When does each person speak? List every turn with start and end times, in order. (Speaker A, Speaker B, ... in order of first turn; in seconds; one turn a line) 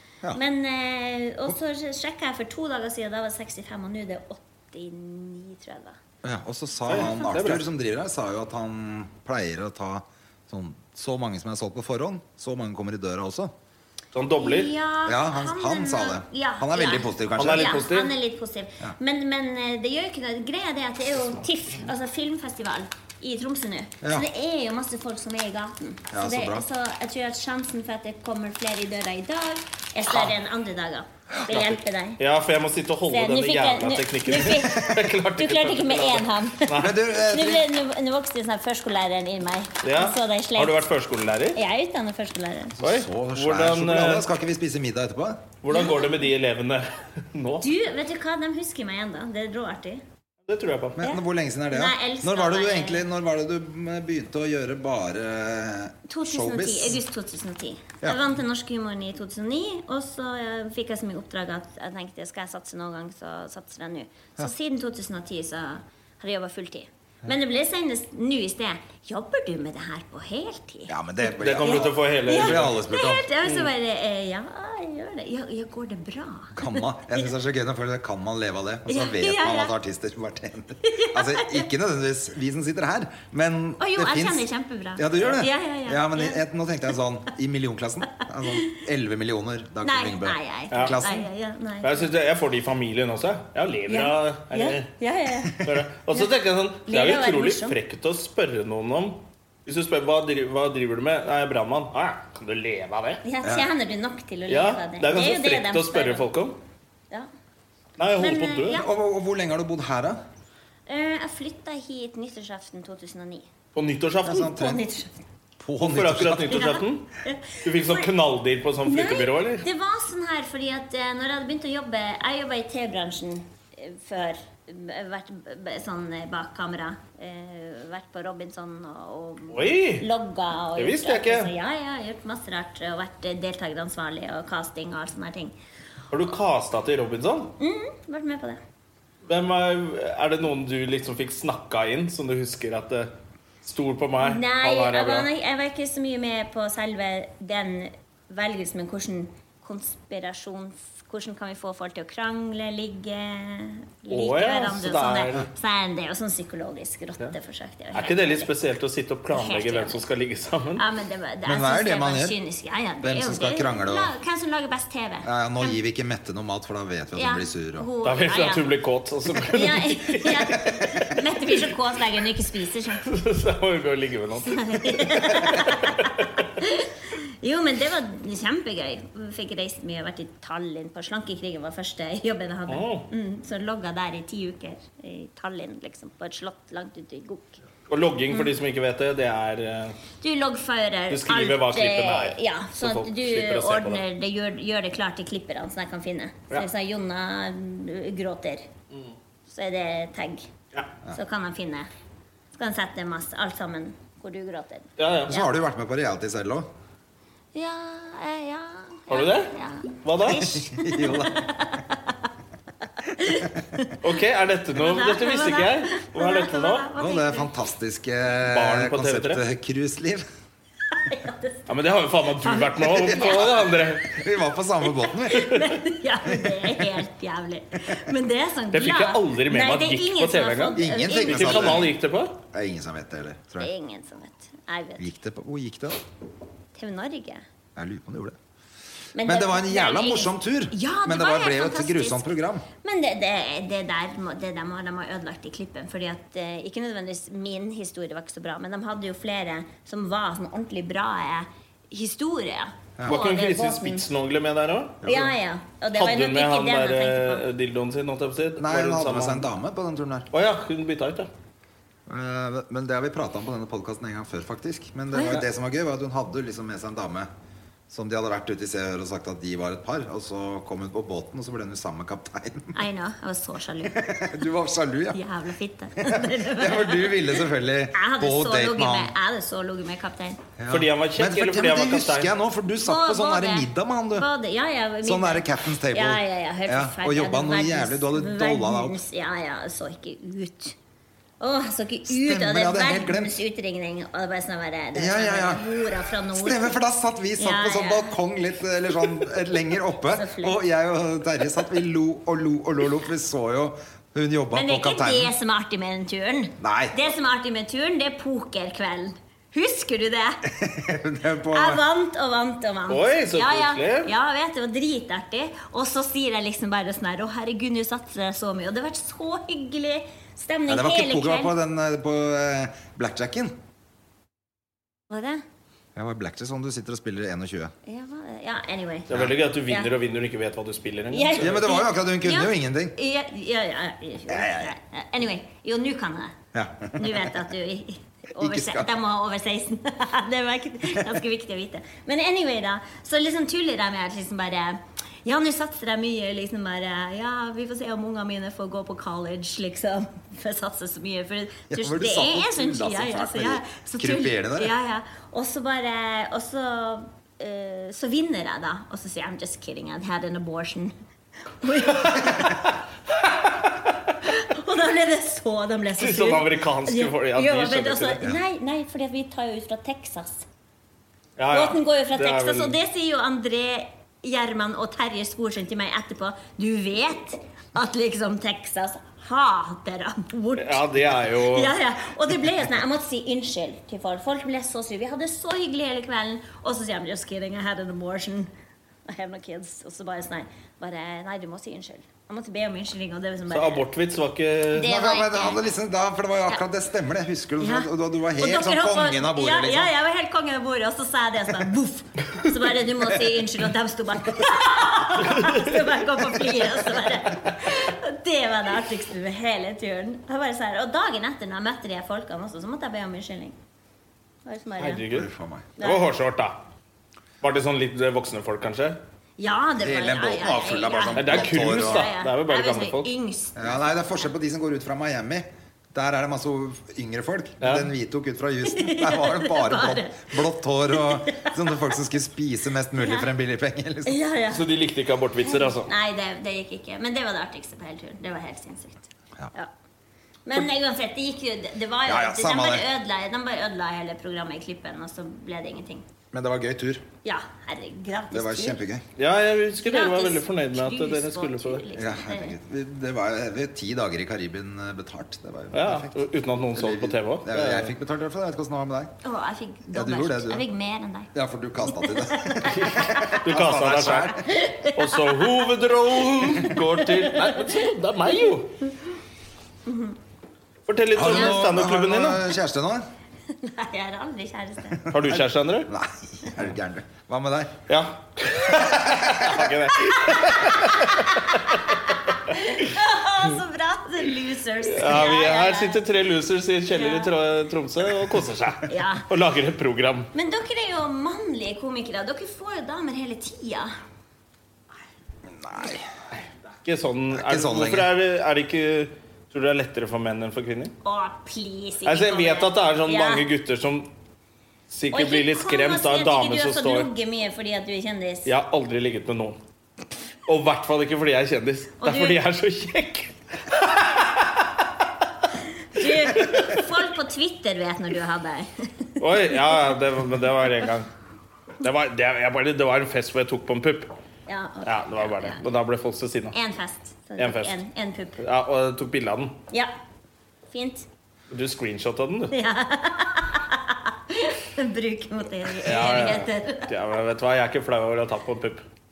Speaker A: 0.3-6.0
Speaker B: 6.2-13.5
Speaker C: 6.9-7.6
Speaker C: 14.1-14.7
Speaker A: 14.4-32.2
Speaker B: 15.1-17.8
Speaker C: 17.4-18.1
Speaker B: 24.0-24.3
Speaker B: 26.1-26.7
Speaker C: 31.5-37.0
Speaker A: 33.1-40.9
Speaker B: 36.8-37.7
Speaker C: 39.8-41.6
Speaker A: 41.5-42.8
Speaker B: 42.8-45.4
Speaker C: 42.8-44.3
Speaker C: 45.6-47.7
Speaker A: 45.7-46.3
Speaker A: 47.6-50.0
Speaker C: 50.5-51.0
Speaker B: 51.0-57.0
Speaker A: 51.0-53.1
Speaker A: 56.1-71.0
Speaker B: 70.9-73.3
Speaker C: 71.4-72.8
Speaker A: 71.6-76.8
Speaker B: 76.5-91.3
Speaker A: 78.9-79.7
Speaker A: 80.8-81.7
Speaker A: 83.8-86.4
Speaker A: 88.4-88.8
Speaker A: 89.8-92.1
Speaker C: 90.7-91.0
Speaker C: 91.8-94.9
Speaker A: 93.9-97.8
Speaker C: 95.6-103.2
Speaker A: 103.2-106.3
Speaker C: 104.5-106.6
Speaker C: 108.0-108.8
Speaker A: 108.2-108.9
Speaker B: 108.7-110.2
Speaker A: 110.9-113.5
Speaker C: 113.8-114.5
Speaker B: 114.3-114.8
Speaker A: 114.3-115.2
Speaker B: 115.6-116.7
Speaker C: 115.8-117.1
Speaker A: 116.5-118.1
Speaker C: 117.6-119.7
Speaker A: 118.9-135.6
Speaker C: 129.5-130.1
Speaker C: 130.8-131.5
Speaker C: 136.1-137.5
Speaker A: 137.6-138.6
Speaker C: 139.2-143.1
Speaker C: 143.6-145.3
Speaker A: 144.2-158.5
Speaker C: 154.1-155.5
Speaker C: 157.9-160.8
Speaker A: 159.3-160.0
Speaker A: 160.8-165.8
Speaker B: 161.5-162.3
Speaker B: 163.0-164.1
Speaker B: 165.2-167.9
Speaker A: 167.2-168.7
Speaker C: 168.0-170.8
Speaker A: 169.4-173.1
Speaker C: 173.0-176.5
Speaker A: 174.4-187.6
Speaker C: 182.7-183.1
Speaker C: 187.9-190.0
Speaker A: 190.2-198.7
Speaker C: 191.1-194.0
Speaker A: 199.5-200.5
Speaker A: 201.1-201.9
Speaker A: 202.6-205.5
Speaker C: 205.0-205.4
Speaker B: 205.3-206.7
Speaker A: 207.6-212.2
Speaker C: 209.1-210.5
Speaker B: 210.4-211.5
Speaker A: 213.0-214.0
Speaker C: 214.0-216.9
Speaker A: 214.8-217.5
Speaker B: 217.0-220.2
Speaker C: 218.4-219.4
Speaker A: 220.9-221.9
Speaker C: 221.7-224.2
Speaker A: 222.4-223.7
Speaker B: 223.1-225.7
Speaker A: 225.1-231.9
Speaker B: 226.3-226.6
Speaker C: 228.7-232.4
Speaker B: 230.8-231.9
Speaker B: 232.5-233.7
Speaker A: 233.6-235.1
Speaker B: 235.0-236.0
Speaker A: 236.8-237.4
Speaker B: 237.8-238.4
Speaker A: 239.2-242.3
Speaker B: 239.2-242.7
Speaker A: 242.8-254.1
Speaker C: 253.1-255.3
Speaker A: 255.0-257.4
Speaker C: 255.9-259.5
Speaker B: 258.6-260.3
Speaker C: 260.3-261.3
Speaker B: 262.1-267.3
Speaker A: 265.1-265.4
Speaker B: 267.9-272.8
Speaker A: 272.7-274.3
Speaker B: 273.9-275.2
Speaker A: 275.1-280.4
Speaker B: 276.0-279.1
Speaker B: 280.6-284.3
Speaker C: 280.7-282.3
Speaker A: 282.8-290.8
Speaker B: 285.0-289.0
Speaker A: 291.4-296.8
Speaker B: 292.1-293.3
Speaker B: 294.9-295.6
Speaker B: 296.3-305.3
Speaker A: 297.4-298.1
Speaker A: 300.1-300.6
Speaker A: 304.5-310.4
Speaker B: 306.6-307.0
Speaker B: 310.5-311.8
Speaker A: 311.5-321.5
Speaker C: 312.9-314.1
Speaker B: 320.7-323.5
Speaker A: 325.1-325.4
Speaker B: 325.9-327.7
Speaker A: 327.9-329.1
Speaker C: 329.1-331.6
Speaker A: 331.1-336.4
Speaker B: 331.4-333.0
Speaker B: 334.3-334.7
Speaker B: 336.5-337.4
Speaker A: 337.0-360.9
Speaker B: 338.4-338.9
Speaker B: 351.7-354.7
Speaker A: 361.6-362.7
Speaker C: 363.2-364.1
Speaker A: 364.2-370.4
Speaker C: 366.0-368.2
Speaker C: 371.4-372.8
Speaker A: 371.5-388.5
Speaker C: 380.6-381.7
Speaker A: 389.1-393.9
Speaker C: 393.5-394.9
Speaker A: 394.7-395.6
Speaker B: 394.8-399.9
Speaker A: 397.6-413.6
Speaker A: 414.4-415.1
Speaker C: 414.8-416.6
Speaker B: 415.1-415.7
Speaker A: 415.8-416.1
Speaker C: 417.4-419.0
Speaker A: 419.4-423.9
Speaker B: 419.8-422.1
Speaker C: 421.2-423.1
Speaker B: 423.6-434.2
Speaker C: 427.6-427.9
Speaker A: 428.7-431.8
Speaker A: 433.0-433.3
Speaker A: 434.1-434.7
Speaker C: 434.5-435.9
Speaker A: 435.4-439.7
Speaker A: 440.5-446.1
Speaker B: 442.1-442.9
Speaker B: 446.3-447.1
Speaker A: 447.2-448.8
Speaker B: 448.3-449.0
Speaker C: 449.2-451.8
Speaker A: 449.8-452.6
Speaker B: 451.9-459.1
Speaker C: 455.7-457.9
Speaker A: 459.2-461.3
Speaker B: 459.9-460.7
Speaker B: 461.3-464.5
Speaker A: 461.9-463.4
Speaker C: 462.6-464.4
Speaker A: 464.4-465.6
Speaker C: 464.9-468.8
Speaker A: 467.1-467.7
Speaker A: 469.9-470.2
Speaker C: 470.9-472.4
Speaker B: 471.1-473.1
Speaker A: 471.3-471.6
Speaker A: 473.5-475.1
Speaker B: 475.1-477.8
Speaker C: 475.1-475.9
Speaker C: 477.9-482.0
Speaker B: 478.7-479.5
Speaker A: 480.3-486.0
Speaker C: 484.9-490.3
Speaker A: 486.9-487.3
Speaker A: 488.9-489.3
Speaker A: 490.3-493.9
Speaker B: 495.5-496.1
Speaker C: 496.7-500.9
Speaker B: 497.3-498.1
Speaker A: 501.0-503.5
Speaker C: 502.1-504.1
Speaker C: 504.9-507.1
Speaker A: 505.1-508.5
Speaker C: 508.4-509.6
Speaker C: 510.5-514.9
Speaker A: 512.0-512.4
Speaker A: 515.9-519.1
Speaker C: 516.0-516.7
Speaker C: 519.2-521.1
Speaker C: 521.8-524.1
Speaker A: 524.5-525.6
Speaker C: 524.8-526.5
Speaker A: 526.5-528.4
Speaker C: 527.4-527.8
Speaker C: 528.4-529.6
Speaker A: 530.7-531.1
Speaker C: 531.5-532.5
Speaker A: 532.5-536.9
Speaker C: 535.8-538.8